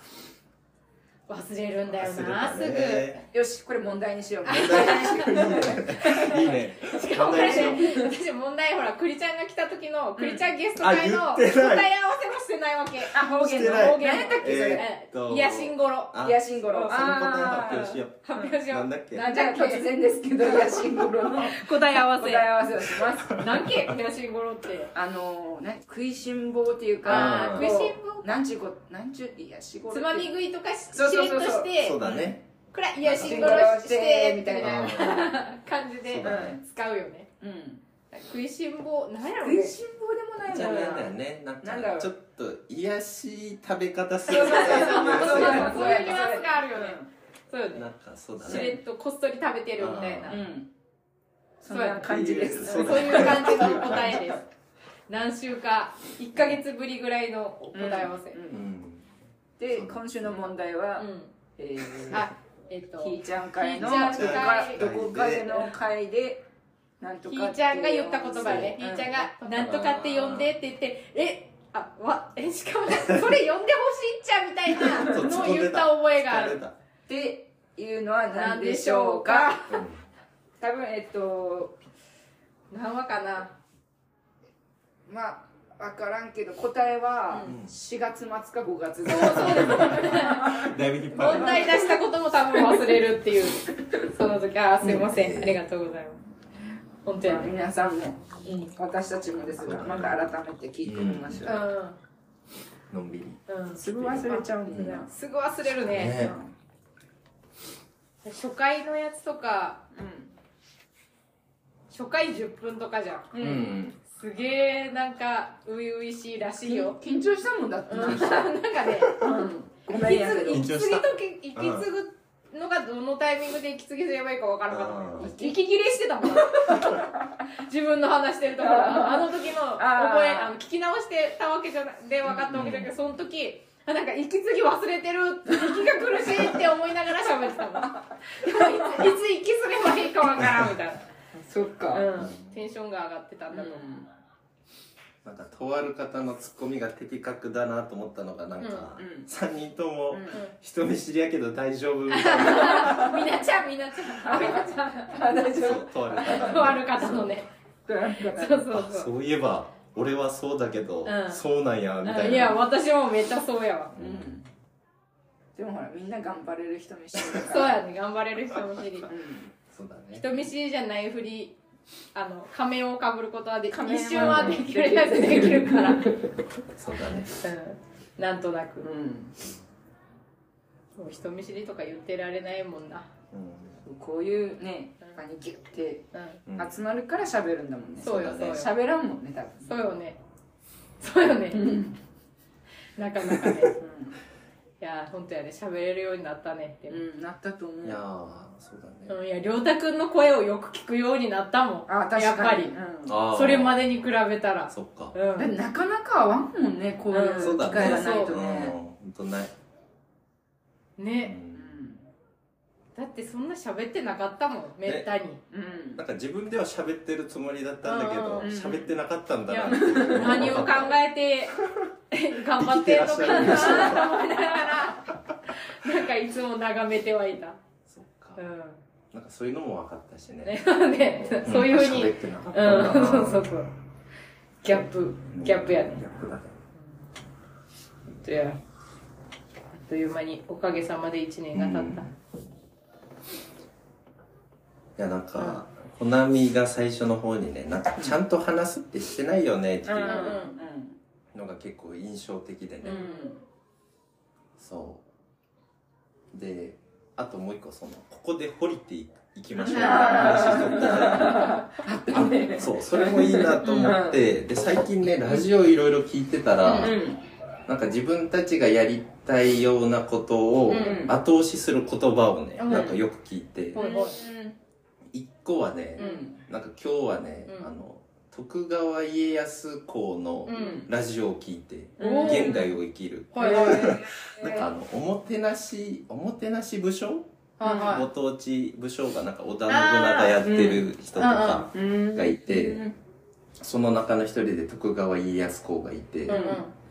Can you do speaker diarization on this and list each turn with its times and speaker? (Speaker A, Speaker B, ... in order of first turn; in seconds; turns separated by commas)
Speaker A: 1.3-3.2, Speaker B: 1.9-3.2, Speaker C: 3.3-6.4, Speaker A: 4.4-16.2, Speaker B: 4.5-7.9, Speaker C: 7.1-8.1, Speaker C: 10.2-10.4, Speaker B: 10.8-11.9, Speaker C: 13.1-14.9, Speaker B: 13.3-19.2, Speaker C: 16.2-18.5, Speaker A: 16.7-19.9, Speaker C: 19.1-23.4, Speaker A: 20.4-22.5, Speaker A: 23.4-24.9, Speaker C: 24.9-30.3, Speaker A: 27.0-28.4, Speaker B: 27.1-27.8, Speaker A: 29.9-32.0, Speaker C: 30.9-32.4, Speaker B: 31.8-32.4, Speaker A: 32.7-37.3, Speaker B: 33.0-33.7, Speaker C: 33.2-35.2, Speaker B: 34.6-35.4, Speaker B: 36.1-36.6, Speaker C: 36.2-36.6, Speaker C: 37.4-37.8, Speaker A: 38.1-39.8, Speaker C: 39.3-42.1, Speaker B: 40.4-46.1, Speaker A: 40.5-41.1, Speaker C: 44.3-47.1, Speaker A: 44.3-47.9, Speaker B: 47.7-48.8, Speaker A: 48.4-50.4, Speaker C: 48.4-48.8, Speaker B: 49.8-50.4, Speaker C: 50.3-50.7, Speaker C: 51.6-54.4, Speaker A: 51.7-54.4, Speaker B: 52.0-54.2, Speaker A: 55.1-58.4, Speaker C: 57.7-58.6, Speaker B: 58.5-59.1, Speaker C: 59.6-62.2, Speaker B: 59.7-60.3, Speaker A: 61.0-61.3, Speaker A: 62.1-64.8, Speaker C: 63.0-66.5, Speaker B: 63.8-65.6, Speaker C: 67.0-69.3, Speaker A: 67.3-76.6, Speaker B: 68.4-68.8, Speaker B: 69.5-70.5, Speaker B: 75.0-76.7, Speaker C: 77.1-79.5, Speaker A: 78.3-79.8, Speaker B: 79.7-80.1, Speaker C: 80.6-81.8, Speaker A: 82.7-83.5, Speaker C: 85.1-90.7, Speaker B: 87.4-87.7, Speaker A: 89.1-90.6, Speaker B: 89.1-91.8, Speaker A: 91.1-96.2, Speaker C: 91.2-93.0, Speaker B: 94.8-95.6, Speaker A: 97.0-97.5, Speaker C: 97.2-101.7, Speaker B: 99.4-100.3, Speaker B: 100.8-101.5, Speaker A: 101.4-102.0, Speaker B: 102.9-105.0, Speaker A: 103.5-106.3, Speaker C: 103.8-105.1, Speaker B: 105.8-106.4, Speaker C: 106.0-106.5, Speaker A: 108.2-109.8, Speaker C: 109.9-110.3, Speaker A: 111.9-113.3, Speaker C: 113.3-113.8, Speaker B: 113.4-114.0, Speaker A: 114.1-117.0, Speaker C: 116.6-120.7, Speaker A: 117.9-119.2, Speaker A: 119.8-141.1, Speaker B: 120.5-121.9, Speaker B: 124.7-125.3, Speaker C: 125.2-127.4, Speaker C: 128.5-130.6, Speaker C: 132.2-132.7, Speaker B: 132.5-132.9, Speaker C: 135.5-136.7, Speaker C: 137.2-139.1, Speaker C: 141.3-142.1, Speaker A: 141.9-143.9, Speaker B: 142.1-142.7, Speaker C: 143.5-144.1, Speaker B: 145.2-153.2, Speaker A: 148.6-148.9, Speaker C: 149.0-149.3, Speaker C: 150.1-150.4, Speaker A: 152.1-155.2, Speaker C: 152.6-153.1, Speaker C: 154.2-156.8, Speaker B: 155.5-157.4, Speaker A: 156.1-157.5, Speaker C: 157.9-158.7, Speaker A: 158.2-159.1, Speaker B: 158.7-162.6, Speaker A: 161.1-161.4, Speaker A: 162.1-163.9, Speaker B: 163.9-164.4, Speaker C: 164.0-164.4, Speaker C: 165.6-167.8, Speaker A: 167.4-169.1, Speaker C: 169.1-169.5, Speaker B: 169.7-170.3, Speaker A: 170.1-171.6, Speaker A: 172.1-176.3, Speaker C: 173.7-176.3, Speaker B: 174.1-174.7, Speaker B: 176.8-177.4, Speaker A: 177.4-178.9, Speaker C: 178.8-179.3, Speaker A: 181.0-183.1, Speaker B: 183.3-183.8, Speaker C: 183.7-189.7, Speaker A: 186.1-186.4, Speaker B: 186.5-186.8, Speaker B: 188.0-188.6, Speaker A: 188.0-188.7, Speaker A: 189.6-190.2, Speaker A: 191.0-191.8, Speaker C: 191.5-192.0, Speaker A: 193.0-193.7, Speaker C: 193.2-194.2, Speaker A: 194.8-197.0, Speaker C: 196.9-198.0, Speaker B: 197.8-199.2, Speaker A: 199.1-202.8, Speaker C: 201.9-203.2, Speaker B: 203.1-203.9, Speaker A: 203.3-205.5, Speaker B: 204.7-205.2, Speaker C: 205.4-208.8, Speaker A: 207.1-208.4, Speaker B: 207.4-209.5, Speaker A: 211.0-211.4, Speaker B: 211.2-211.7, Speaker C: 211.5-212.1, Speaker A: 212.9-215.4, Speaker C: 215.5-216.0, Speaker B: 216.0-221.0, Speaker A: 217.8-218.5, Speaker C: 218.4-218.9, Speaker A: 219.5-221.6, Speaker C: 219.7-220.6, Speaker B: 221.6-221.9, Speaker A: 222.1-227.6, Speaker B: 222.6-224.2, Speaker C: 223.2-224.9, Speaker B: 227.9-228.4, Speaker A: 228.4-228.8, Speaker B: 229.1-230.6, Speaker A: 230.4-233.7, Speaker B: 231.4-233.5, Speaker A: 234.6-236.0, Speaker B: 235.3-236.6, Speaker A: 238.2-238.6, Speaker A: 239.7-242.1, Speaker B: 241.5-242.1, Speaker B: 245.0-250.4, Speaker A: 245.3-245.6, Speaker C: 249.8-251.0, Speaker A: 250.1-250.6, Speaker B: 251.3-253.1, Speaker A: 252.8-253.3, Speaker C: 252.8-253.4, Speaker B: 254.6-255.0, Speaker B: 256.3-267.0, Speaker A: 259.6-261.6, Speaker C: 259.6-265.4, Speaker A: 263.6-264.0, Speaker A: 266.6-266.9, Speaker C: 266.8-267.2, Speaker B: 267.7-273.9, Speaker A: 270.7-271.0, Speaker C: 270.7-271.1, Speaker A: 272.6-272.9, Speaker C: 272.7-273.0, Speaker A: 273.8-274.2, Speaker C: 273.8-274.6, Speaker B: 275.1-292.8, Speaker C: 276.0-276.4, Speaker A: 276.0-276.3, Speaker A: 277.5-277.7, Speaker A: 280.5-280.9, Speaker C: 280.5-280.9, Speaker C: 282.0-282.7, Speaker A: 282.0-282.6, Speaker A: 283.3-284.0, Speaker C: 283.4-284.7, Speaker A: 287.6-288.1, Speaker C: 287.6-287.9, Speaker A: 289.7-290.4, Speaker C: 290.4-290.9, Speaker A: 291.1-291.7, Speaker C: 291.7-292.9, Speaker B: 293.6-296.5, Speaker A: 296.2-296.7, Speaker C: 296.3-296.6